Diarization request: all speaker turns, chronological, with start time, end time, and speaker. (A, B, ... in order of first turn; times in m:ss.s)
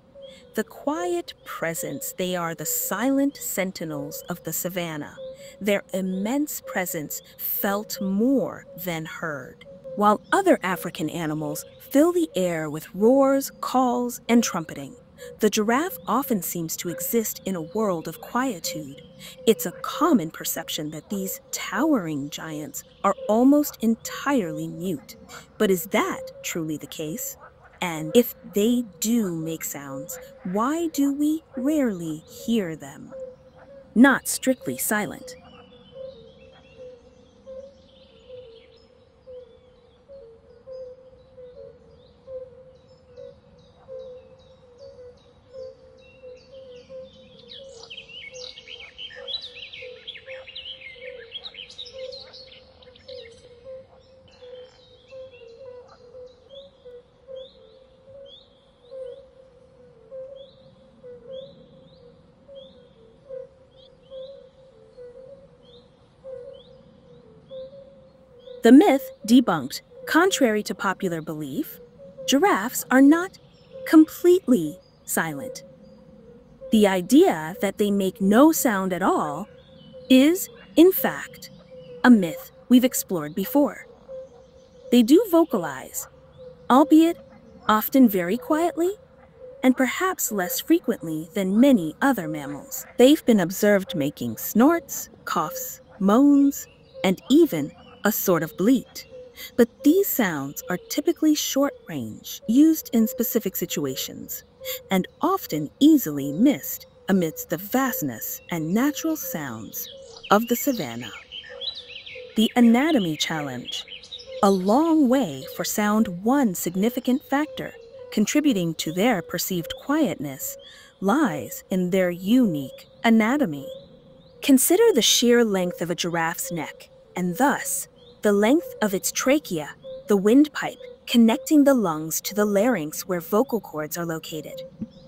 0:00.5-0:33.2 A
0:33.9-0:35.4 A
1:08.6-1:15.6 A
1:16.7-1:19.5 A
1:20.1-1:21.5 A
1:22.0-1:23.9 A
1:24.9-1:26.1 A
1:26.7-1:29.0 A
1:29.6-1:51.2 A
1:52.3-1:53.9 A
1:54.4-2:03.8 A
2:04.4-2:14.6 A